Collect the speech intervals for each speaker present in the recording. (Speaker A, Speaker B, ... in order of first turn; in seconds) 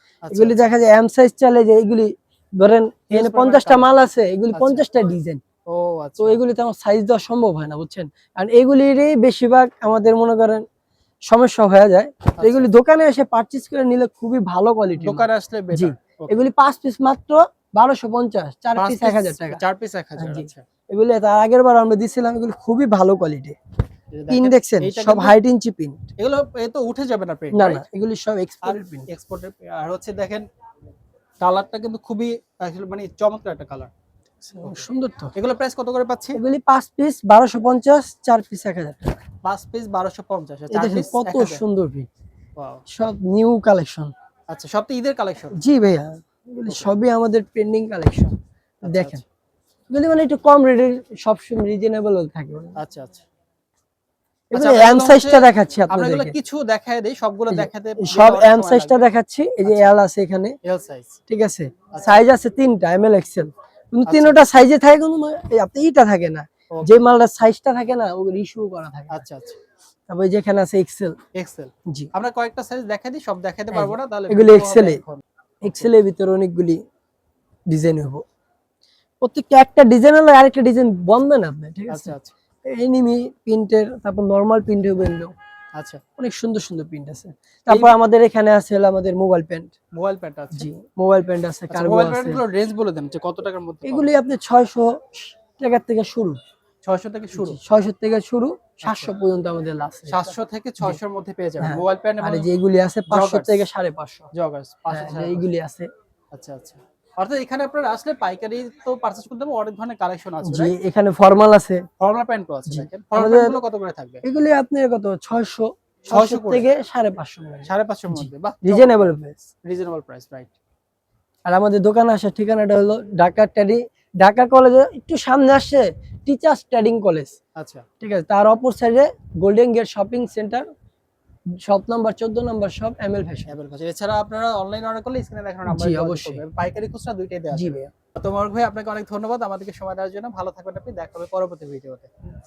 Speaker A: 0.2-0.6, 3.1-3.9, 4.5-4.8, 5.7-6.4, 12.4-12.7, 15.0-16.4, 18.7-20.6, 24.1-25.4, 26.2-27.8, 28.6-30.4, 31.4-33.9, 34.6-36.4, 39.4-41.6, 42.6-42.8, 44.5-45.6, 48.8-49.2, 52.8-53.2, 54.5-59.1, 59.6-59.9, 60.6-61.2, 61.9-62.2, 64.0-64.4, 69.1-69.6, 71.3-75.9, 81.9-82.3, 87.7-87.9, 89.9-90.7, 91.7-94.1, 96.8-97.6, 98.8-99.1, 100.1-102.5, 103.1-103.6, 104.3-105.5, 106.3-110.7, 112.0-114.2, 116.1-116.7, 117.6-119.1, 119.6-120.5, 127.5-127.8, 133.5-142.1
Speaker B: 0.3-5.4, 6.2-10.6, 11.3-19.6, 20.2-23.6, 24.3-26.0, 27.5-29.1, 34.4-35.3, 36.4-39.2, 40.7-42.1, 42.9-44.1, 45.5-49.2, 49.9-52.8, 54.5-56.3, 57.5-60.5, 61.3-69.2, 70.1-71.2, 73.7-75.0, 75.6-76.8, 77.7-78.2, 79.2-85.3, 86.2-89.7, 90.5-92.4, 93.8-96.4, 97.3-100.2, 101.6-104.3, 104.9-105.9, 110.4-111.8, 112.7-113.6, 114.2-119.4, 121.5-127.4, 128.0-130.7, 131.5-133.5, 135.7-136.4, 137.5-137.9